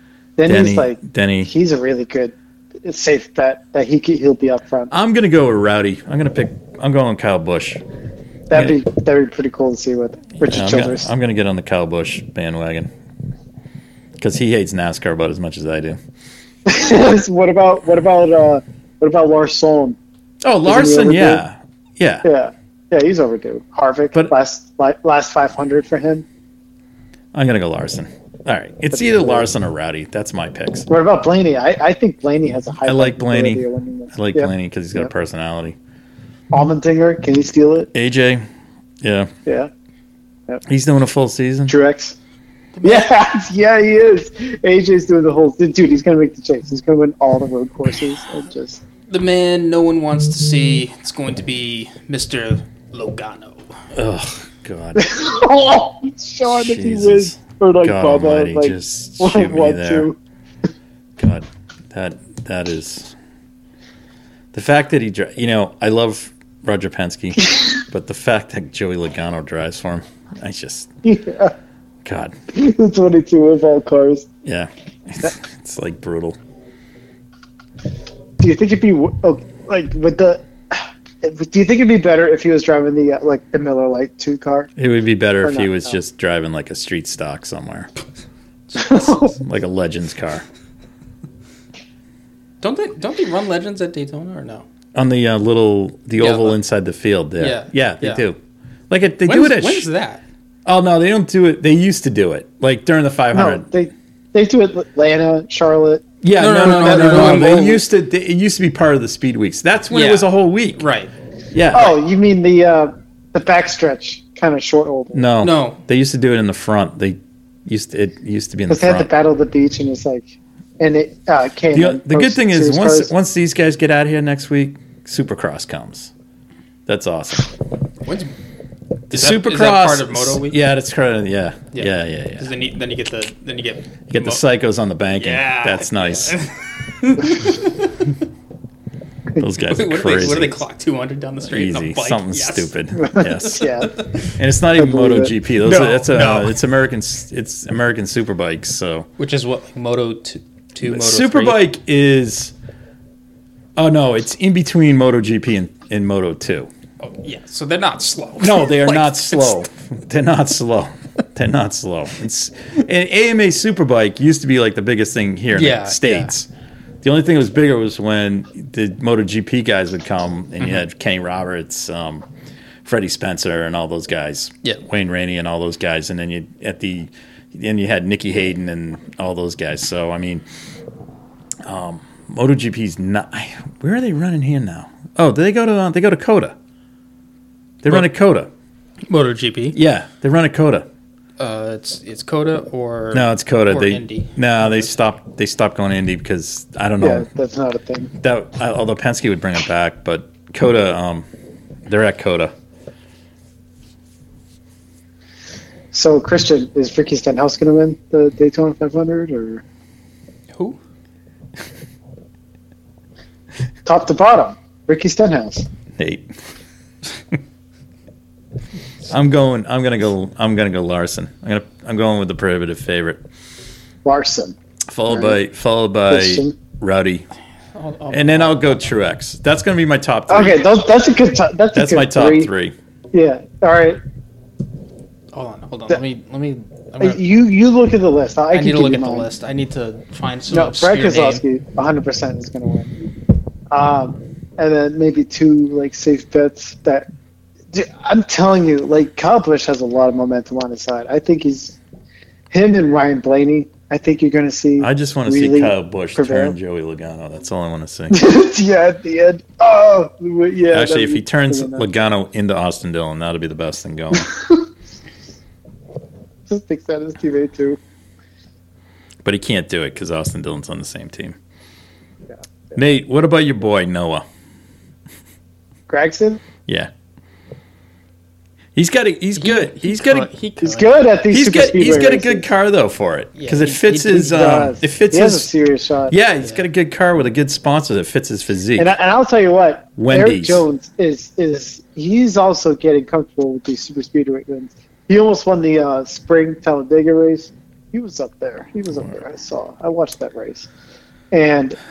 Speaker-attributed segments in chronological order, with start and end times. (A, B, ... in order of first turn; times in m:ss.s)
0:00.4-0:04.9 A
0:00.5-0:01.5 B
0:04.9-0:07.8 B
0:08.5-0:11.1 A
0:10.4-0:12.9 B
0:14.2-0:16.0 B
0:16.7-0:20.0 A
0:20.4-0:22.2 B
0:20.6-0:21.4 A
0:22.2-0:26.2 A
0:27.3-0:30.9 B
0:28.9-0:29.5 A
0:30.9-0:35.1 A
0:32.9-0:35.8 B
0:36.5-0:37.9 A
0:37.9-0:38.4 B
0:39.0-0:39.3 B
0:40.7-0:41.7 B
0:41.7-0:42.2 A
0:42.8-0:43.1 C
0:42.8-0:48.8 A
0:49.1-0:53.6 C
0:53.9-0:55.1 B
0:55.0-1:00.2 A
0:56.5-1:00.1 B
1:01.2-1:03.1 B
1:04.5-1:10.9 B
1:11.0-1:11.6 A
1:12.0-1:12.4 B
1:12.5-1:14.3 A
1:14.4-1:16.4 B
1:18.4-1:24.7 A
1:24.8-1:27.9 B
1:25.4-1:26.0 A
1:28.8-1:29.4 A
1:28.8-1:30.4 B
1:32.6-1:34.6 C
1:34.9-1:38.4 B
1:36.2-1:36.6 C
1:37.4-1:38.2 C
1:38.9-1:39.9 B
1:39.2-1:40.2 C
1:40.6-1:43.7 B
1:43.3-1:46.1 A
1:46.2-1:50.8 B
1:46.4-1:47.8 C
1:46.6-1:47.8 A
1:49.9-1:51.1 C
1:51.5-1:52.0 B
1:51.7-1:55.3 A
1:55.1-1:59.1 B
1:55.4-1:55.8 C
1:58.7-2:00.3 A
2:00.8-2:03.1 A
2:01.7-2:06.1 B
2:06.9-2:07.5 B
2:08.0-2:08.3 C
2:09.1-2:12.5 B
2:09.1-2:10.6 C
2:11.7-2:14.4 C
2:14.1-2:16.4 B
2:15.2-2:18.1 C
2:19.4-2:20.6 B
2:19.7-2:22.7 C
2:21.5-2:23.8 B
2:23.0-2:23.9 A
2:23.8-2:24.1 C
2:24.4-2:29.1 B
2:24.8-2:25.3 A
2:25.6-2:26.6 C
2:29.2-2:31.6 C
2:30.9-2:32.5 B
2:33.8-2:36.7 B
2:37.0-2:39.6 C
2:38.4-2:46.5 B
2:45.5-2:46.3 C
2:47.0-2:52.2 B
2:52.8-3:00.4 B
3:01.6-3:06.6 B
3:07.8-3:08.5 B
3:09.1-3:09.8 C
3:09.7-3:10.9 B
3:11.4-3:14.9 C
3:13.1-3:17.3 B
3:17.0-3:18.1 A
3:18.2-3:21.3 B
3:21.9-3:22.5 B
3:25.9-3:29.6 A
3:33.8-3:35.7 A
3:36.0-3:36.3 B
3:39.1-3:43.2 B
3:44.0-3:44.6 A
3:44.9-3:47.3 B
3:45.1-3:45.4 A
3:46.1-3:46.6 A
3:47.7-3:48.9 C
3:48.1-3:50.6 B
3:50.3-3:52.5 A
3:51.7-3:52.8 B
3:53.1-3:54.0 A
3:55.3-3:57.2 C
3:57.0-3:59.3 A
3:58.5-4:01.4 C
4:00.5-4:03.1 A
4:03.7-4:07.1 A
4:07.7-4:11.8 A
4:12.5-4:16.6 A
4:14.8-4:18.2 B
4:18.1-4:21.9 A
4:20.7-4:24.3 B
4:24.2-4:24.6 A
4:26.5-4:27.8 A
4:29.2-4:31.4 B
4:32.8-4:34.2 B
4:35.9-4:36.4 A
4:38.8-4:40.3 B
4:39.4-4:40.9 C
4:40.6-4:42.5 A
4:41.3-4:45.5 B
4:43.4-4:44.6 C
4:44.1-4:46.2 A
4:46.1-4:48.9 B
4:48.8-5:00.7 A
4:50.0-4:50.6 B
5:01.3-5:01.8 A